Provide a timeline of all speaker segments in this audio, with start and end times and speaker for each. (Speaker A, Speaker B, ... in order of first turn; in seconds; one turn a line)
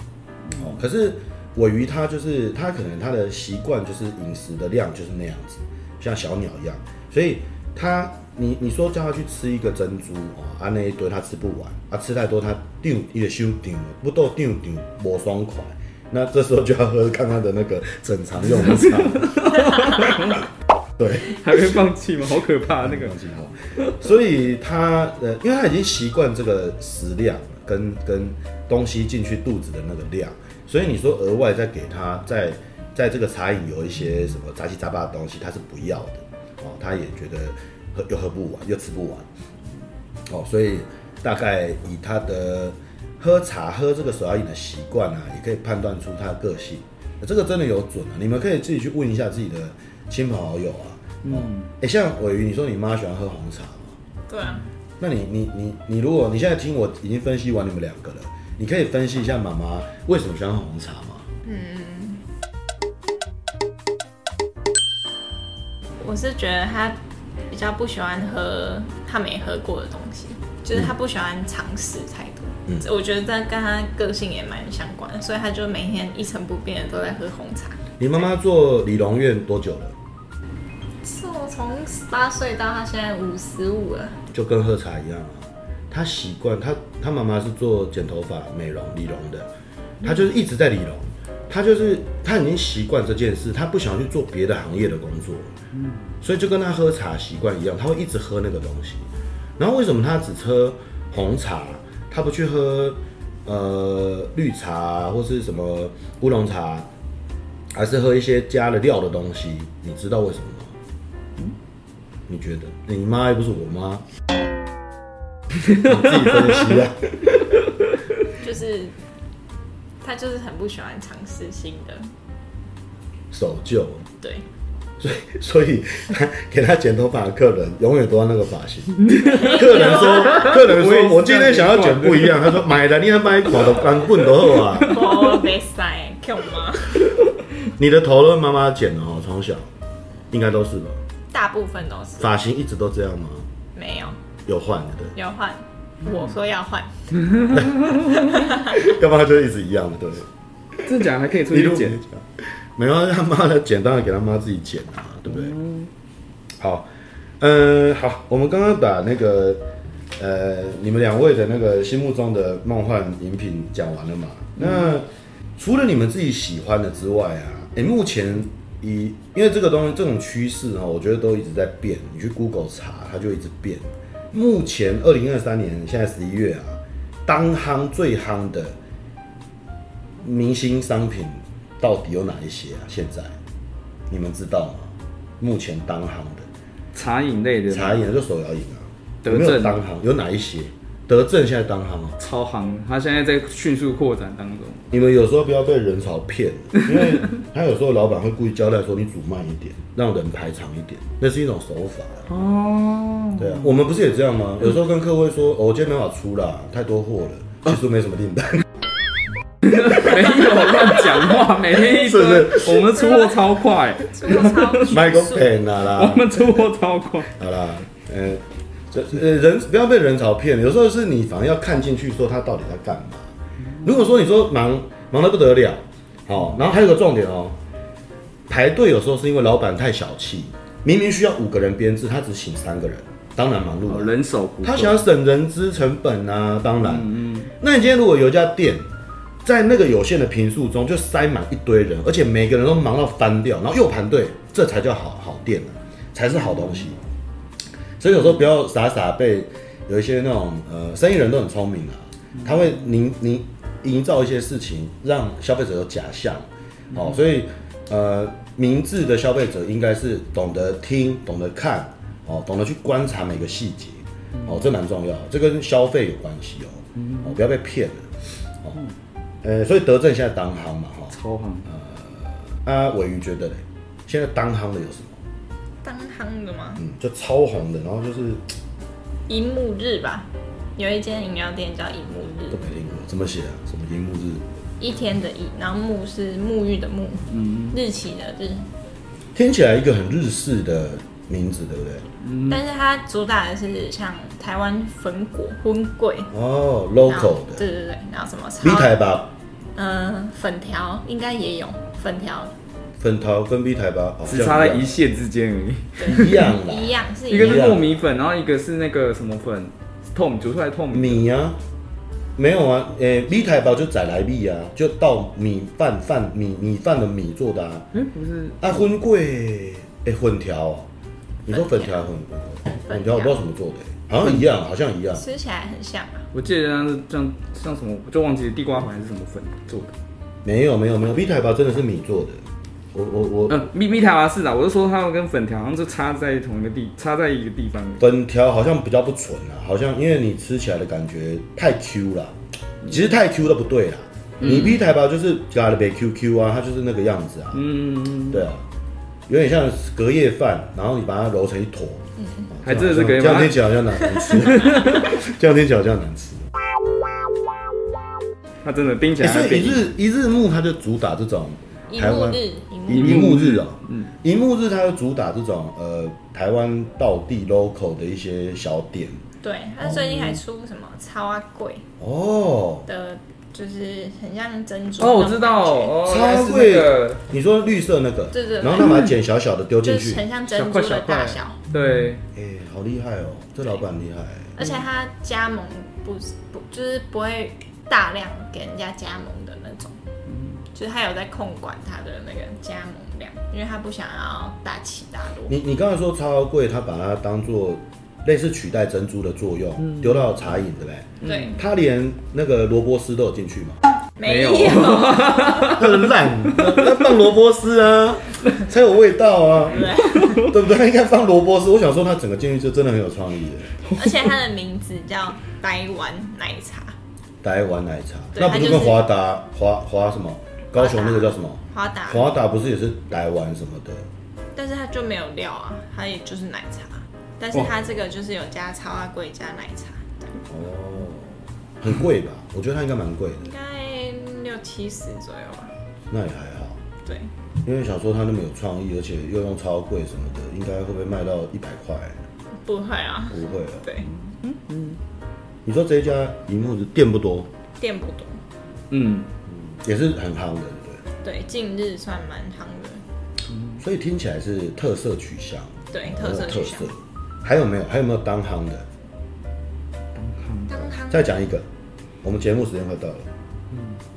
Speaker A: 0.5-20.0
Speaker B: 18.8-20.4
Speaker A: 21.0-21.6
Speaker B: 21.2-23.1
Speaker A: 22.8-39.3
Speaker A: 40.3-53.9
Speaker B: 51.2-51.7
Speaker C: 54.3-54.6
Speaker A: 55.0-61.2
Speaker C: 61.4-62.2
Speaker C: 66.0-67.0
Speaker C: 67.5-77.8
Speaker A: 78.0-79.9
Speaker C: 81.0-84.2
Speaker A: 84.3-89.5
Speaker A: 90.0-95.5
Speaker A: 96.2-99.1
Speaker A: 99.6-106.9
Speaker A: 107.7-110.7
Speaker A: 112.3-114.0
Speaker A: 115.7-117.3
Speaker C: 118.4-118.9
Speaker C: 120.0-122.1
Speaker A: 123.3-124.0
Speaker A: 125.0-135.0
Speaker B: 129.0-132.6
Speaker C: 129.2-130.6
Speaker C: 134.8-137.1
Speaker A: 137.8-139.7
Speaker A: 140.3-141.0
Speaker C: 141.3-142.3
Speaker A: 142.2-143.5
Speaker C: 143.7-144.2
Speaker A: 144.5-145.1
Speaker C: 145.1-146.9
Speaker B: 147.3-148.1
Speaker A: 147.5-150.9
Speaker C: 148.1-148.8
Speaker B: 150.8-152.0
Speaker A: 151.5-155.5
Speaker B: 155.3-155.9
Speaker A: 156.6-156.9
Speaker A: 157.4-159.6
Speaker A: 160.2-178.8
Speaker B: 164.6-164.9
Speaker A: 180.2-183.3
Speaker A: 184.1-186.5
Speaker B: 186.9-188.1
Speaker A: 187.7-192.2
Speaker B: 189.2-189.8
Speaker B: 192.2-194.9
Speaker A: 194.9-202.3
Speaker B: 202.3-203.7
Speaker A: 203.4-208.6
Speaker B: 209.6-215.0
Speaker A: 211.8-213.0
Speaker C: 214.0-215.4
Speaker A: 214.9-216.7
Speaker B: 215.9-217.3
Speaker A: 217.3-223.3
Speaker A: 223.8-227.6
Speaker A: 228.5-238.9
Speaker B: 233.9-235.0
Speaker B: 236.8-237.5
Speaker A: 239.4-247.0
Speaker A: 248.0-268.1
Speaker B: 264.3-264.6
Speaker B: 266.9-267.3
Speaker A: 269.4-271.1
Speaker B: 271.1-271.7
Speaker A: 271.7-275.2
Speaker C: 275.8-276.8
Speaker A: 276.8-278.4
Speaker C: 279.3-282.6
Speaker A: 282.4-284.4
Speaker C: 284.8-288.7
Speaker B: 287.3-287.7
Speaker A: 289.3-292.1
Speaker B: 292.2-292.6
Speaker C: 292.5-296.3
Speaker A: 296.3-297.6
Speaker C: 297.1-299.0
Speaker A: 298.6-299.3
Speaker C: 299.8-302.5
Speaker A: 303.0-304.9
Speaker B: 304.2-306.5
Speaker C: 306.0-307.8
Speaker A: 306.1-307.9
Speaker B: 307.3-311.2
Speaker A: 310.9-311.6
Speaker A: 312.4-317.9
Speaker B: 317.9-318.7
Speaker A: 318.6-320.9
Speaker A: 321.4-325.2
Speaker C: 321.5-322.1
Speaker C: 322.8-323.4
Speaker C: 325.1-326.2
Speaker B: 326.3-329.9
Speaker A: 330.4-332.4
Speaker A: 332.9-333.6
Speaker B: 333.5-338.0
Speaker A: 338.0-347.7
Speaker B: 344.4-344.8
Speaker B: 347.5-348.5
Speaker A: 348.3-348.6
Speaker A: 349.3-356.4
Speaker C: 352.2-352.5
Speaker B: 352.6-353.7
Speaker B: 354.3-355.1
Speaker B: 358.6-359.9
Speaker A: 359.2-369.2
Speaker C: 361.9-363.3
Speaker B: 362.9-364.1
Speaker C: 369.4-371.8
Speaker A: 372.0-372.9
Speaker C: 372.9-376.0
Speaker B: 375.0-377.2
Speaker A: 376.0-380.2
Speaker C: 378.3-379.1
Speaker C: 379.8-381.6
Speaker B: 380.5-382.2
Speaker A: 382.3-384.5
Speaker C: 384.6-390.0
Speaker B: 390.3-390.6
Speaker C: 390.7-395.6
Speaker A: 395.5-403.8
Speaker B: 399.8-400.4
Speaker B: 401.2-401.6
Speaker C: 401.2-401.6
Speaker C: 404.2-405.8
Speaker B: 404.2-407.0
Speaker A: 405.7-413.7
Speaker C: 409.7-410.5
Speaker B: 410.1-410.5
Speaker C: 413.9-416.9
Speaker A: 417.4-424.0
Speaker C: 418.3-419.1
Speaker C: 420.7-422.3
Speaker C: 424.5-430.4
Speaker A: 430.5-433.4
Speaker C: 433.4-435.7
Speaker A: 436.1-436.8
Speaker A: 437.6-442.2
Speaker C: 442.6-444.1
Speaker A: 443.3-443.9
Speaker B: 444.4-445.0
Speaker A: 445.6-447.5
Speaker C: 447.8-448.4
Speaker B: 448.9-449.3
Speaker A: 449.5-451.0
Speaker C: 451.2-453.0
Speaker B: 453.5-453.8
Speaker A: 453.8-458.9
Speaker C: 455.9-456.9
Speaker B: 460.1-460.8
Speaker C: 460.7-461.4
Speaker A: 461.1-461.6
Speaker A: 462.2-463.3
Speaker B: 463.7-464.0